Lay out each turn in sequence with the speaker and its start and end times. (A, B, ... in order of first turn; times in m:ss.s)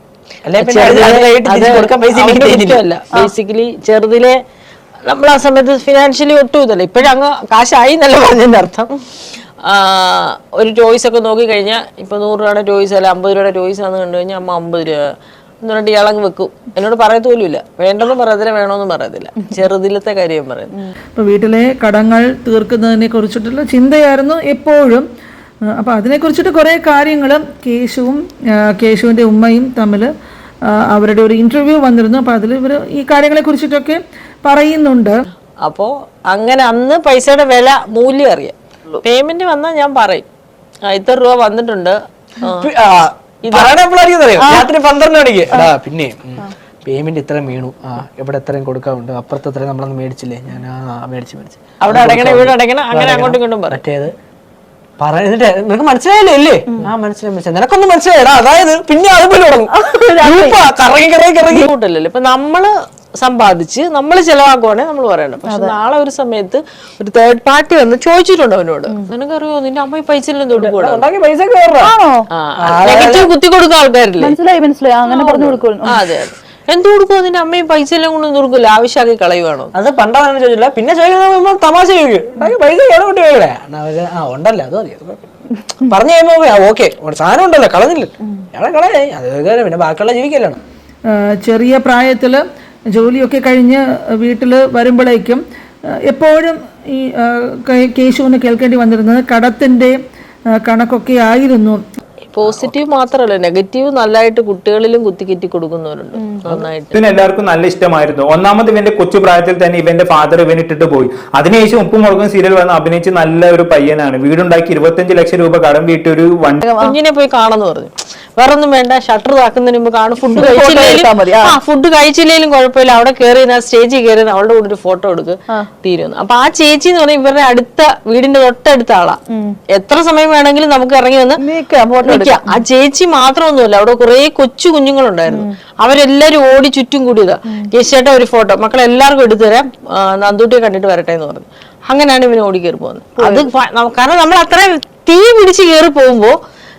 0:00.4-0:02.8 A
0:00.6-0:04.4 B
0:05.1-0:08.9 B
0:09.6-0:15.0 B
0:15.6-0:20.7 B
0:21.2-0:25.0 C
0:25.7-0:30.1 C
0:30.7-0:35.2 C
0:35.6-0:40.2 B
0:40.9-0:42.7 B
0:42.5-0:54.1 A
0:43.4-0:43.7 B
0:51.8-0:53.8 B
0:55.0-1:01.7 A
0:59.8-1:00.5 D
1:01.4-1:11.0 B
1:05.5-1:05.7 D
1:10.6-1:11.9 A
1:11.8-1:12.3 D
1:12.3-1:14.4 B
1:12.6-1:13.3 A
1:14.2-1:16.0 D
1:15.0-1:19.7 B
1:19.7-1:25.2 A
1:25.8-1:30.6 A
1:31.1-1:32.4 C
1:32.9-1:35.4 C
1:35.9-1:40.0 C
1:40.6-1:41.8 C
1:42.3-1:47.0 B
1:42.4-1:42.7 A
1:46.9-1:56.6 E
1:56.6-1:57.0 D
1:56.8-2:09.2 B
2:00.3-2:01.5 D
2:09.3-2:09.6 D
2:09.7-2:11.4 B
2:11.4-2:12.6 D
2:12.0-2:26.4 B
2:23.2-2:23.5 D